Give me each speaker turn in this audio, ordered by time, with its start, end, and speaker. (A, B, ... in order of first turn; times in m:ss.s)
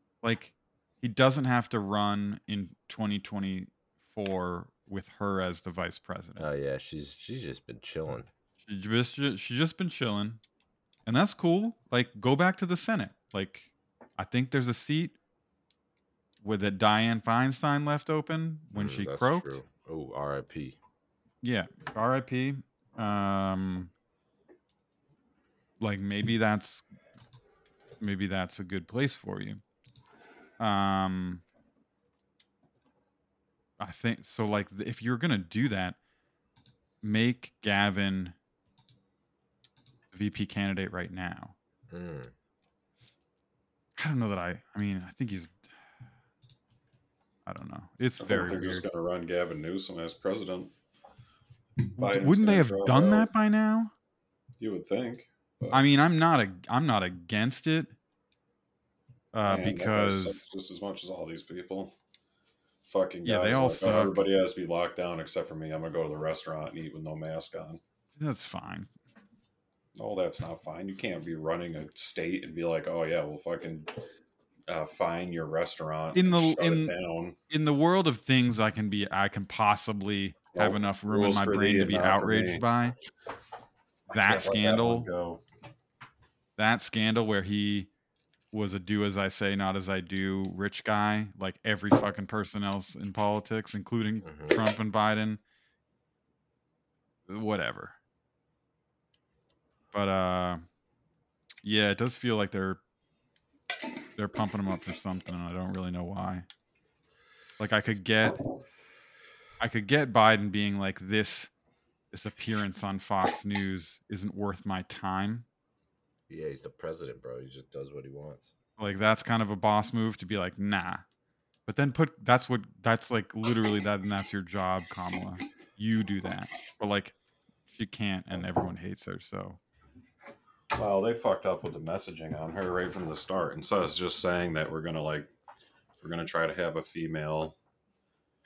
0:00.2-0:06.4 A
0:06.4-0:08.3 B
0:08.6-0:10.4 A
0:11.1-0:15.2 A
0:16.4-0:19.6 A
0:18.8-0:20.8 B
0:21.4-0:23.9 A
0:25.8-0:26.8 A
0:28.0-0:29.6 A
0:30.6-0:31.4 A
0:33.8-0:36.0 A
0:37.0-0:38.4 A
0:40.1-0:41.6 A
0:41.9-0:42.3 B
0:44.0-0:45.6 A
0:47.5-0:48.9 A
0:48.2-0:50.7 C
0:51.9-0:53.3 C
0:52.0-0:53.9 A
0:54.6-0:55.8 C
0:55.7-0:57.9 A
0:59.3-1:00.4 A
0:59.4-1:02.0 C
1:02.9-1:07.8 C
1:03.2-1:04.2 A
1:08.2-1:08.9 A
1:10.0-1:14.0 C
1:14.7-1:17.4 C
1:16.1-1:16.9 A
1:17.5-1:23.0 A
1:20.5-1:22.7 C
1:24.1-1:25.4 C
1:24.1-1:25.1 A
1:26.6-1:27.9 A
1:28.5-1:35.4 A
1:34.2-1:34.6 B
1:37.3-1:38.0 A
1:39.9-1:40.6 A
1:41.6-1:42.8 A
1:44.2-1:46.5 A
1:47.6-1:48.4 A
1:49.6-1:51.5 A
1:52.1-1:55.4 A
1:56.3-1:58.5 B
1:58.8-2:01.0 A
2:01.7-2:07.2 A
2:07.7-2:09.6 A
2:10.7-2:15.3 C
2:16.0-2:17.6 C